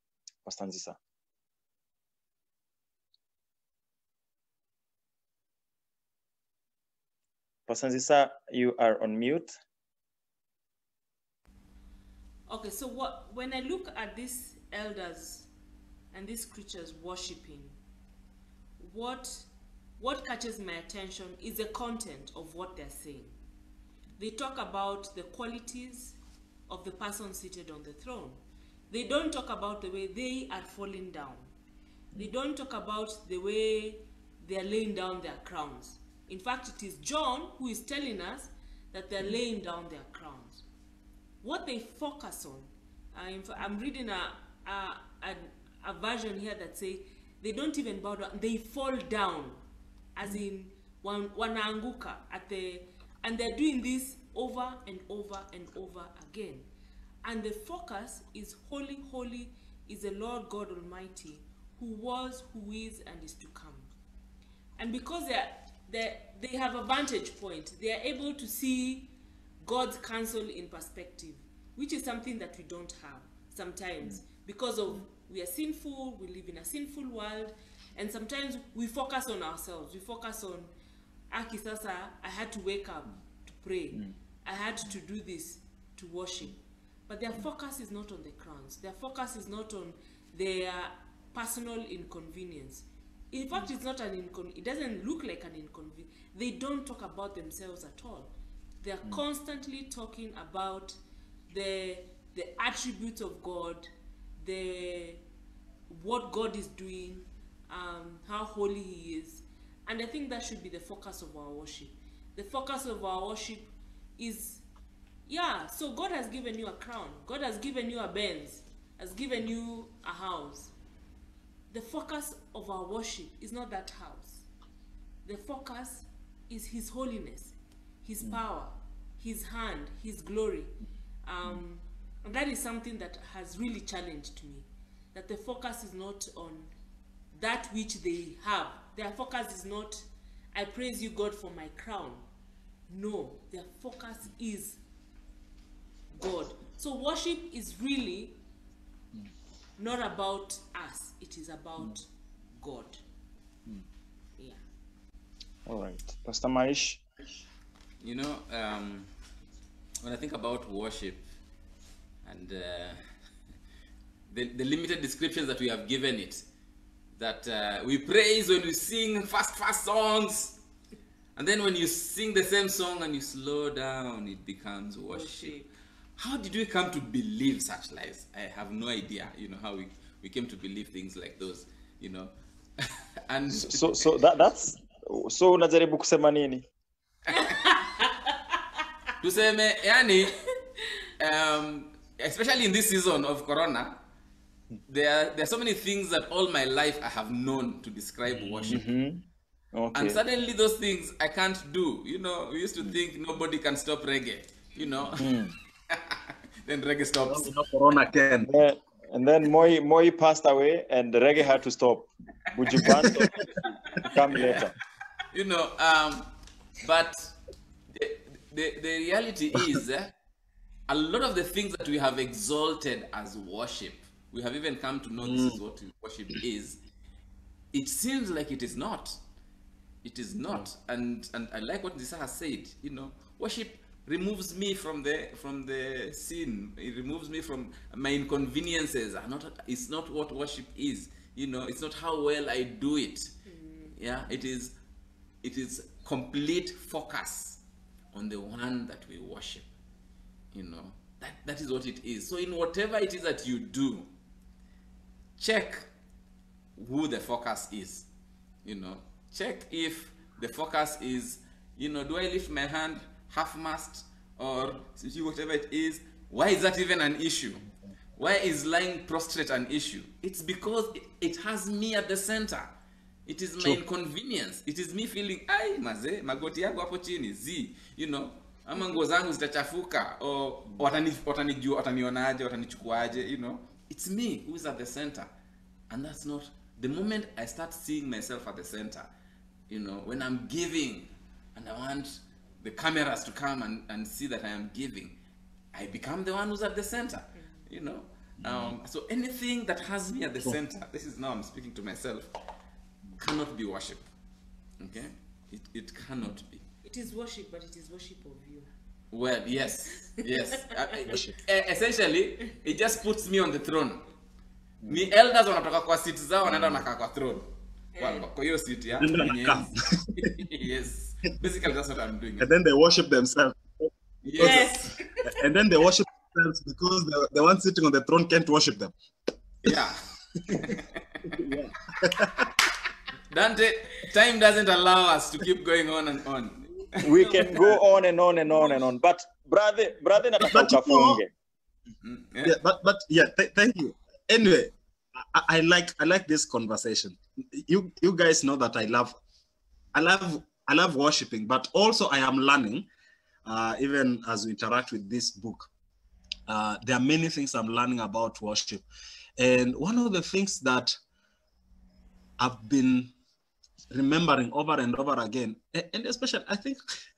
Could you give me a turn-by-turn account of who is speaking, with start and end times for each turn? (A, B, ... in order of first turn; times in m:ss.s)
0:00.4-0:01.0 A
0:07.7-0:09.5 A
0:12.5-0:15.5 B
0:16.1-0:17.8 B
0:18.8-0:19.5 B
0:20.0-0:23.4 B
0:24.2-0:31.5 B
0:32.2-0:40.6 B
0:41.4-0:49.6 B
0:50.2-0:56.7 B
0:57.2-1:03.9 B
1:04.8-1:20.7 B
1:21.3-1:41.0 B
1:41.5-1:43.9 B
1:44.4-1:45.2 B
1:45.9-1:54.6 B
1:55.3-2:00.7 B
2:01.7-2:04.5 B
2:05.2-2:10.8 B
2:11.3-2:16.7 B
2:17.3-2:22.2 B
2:22.9-2:24.8 B
2:26.1-2:28.4 B
2:29.8-2:33.0 B
2:35.7-2:37.0 A
2:38.0-2:39.1 C
2:40.0-2:41.2 C
2:42.2-2:43.0 C
2:44.3-2:46.4 C
2:47.2-2:50.6 C
2:51.4-2:55.6 C
2:55.1-2:55.7 B
2:56.2-3:04.0 C
3:03.5-3:06.7 A
3:07.4-3:08.1 B
3:09.2-3:10.4 C
3:11.2-3:14.0 C
3:14.9-3:18.8 C
3:18.3-3:18.8 D
3:18.7-3:20.2 A
3:19.9-3:25.3 C
3:25.2-3:25.5 A
3:25.9-3:27.5 C
3:27.2-3:28.5 D
3:28.5-3:34.7 A
3:35.3-3:37.4 C
3:37.9-3:40.1 C
3:40.9-3:46.8 C
3:45.2-3:45.6 D
3:47.7-3:49.2 C
3:50.0-4:03.3 C
4:03.5-4:04.0 B
4:04.0-4:04.8 C
4:05.4-4:07.6 C
4:08.1-4:09.7 C
4:10.5-4:14.1 C
4:15.4-4:15.9 C
4:16.8-4:18.1 C
4:18.6-4:27.7 C
4:28.2-4:32.7 C
4:33.3-4:45.3 C
4:45.9-4:49.1 C
4:49.7-4:55.2 C
4:55.7-5:02.3 C
4:57.4-4:57.7 B
4:58.4-4:58.8 D
5:03.2-5:04.1 C
5:04.8-5:06.7 C
5:06.8-5:08.7 B
5:09.1-5:14.0 C
5:11.1-5:11.4 D
5:14.9-5:22.5 C
5:16.4-5:16.9 D
5:18.0-5:18.2 B
5:19.0-5:20.3 D
5:22.4-5:24.7 D
5:24.2-5:24.9 C
5:24.4-5:25.0 B
5:25.2-5:28.9 D
5:29.6-5:30.0 C
5:30.5-5:30.8 D
5:30.5-5:31.4 C
5:31.3-5:32.5 D
5:33.3-5:37.0 C
5:37.0-5:41.3 A
5:37.1-5:37.7 B
5:40.4-5:41.2 D
5:42.0-5:42.6 C
5:42.4-5:49.2 D
5:49.9-5:52.9 D
5:53.4-5:55.7 D
5:56.5-5:58.8 D
5:59.4-6:01.0 D
6:02.4-6:03.1 D
6:03.9-6:06.8 D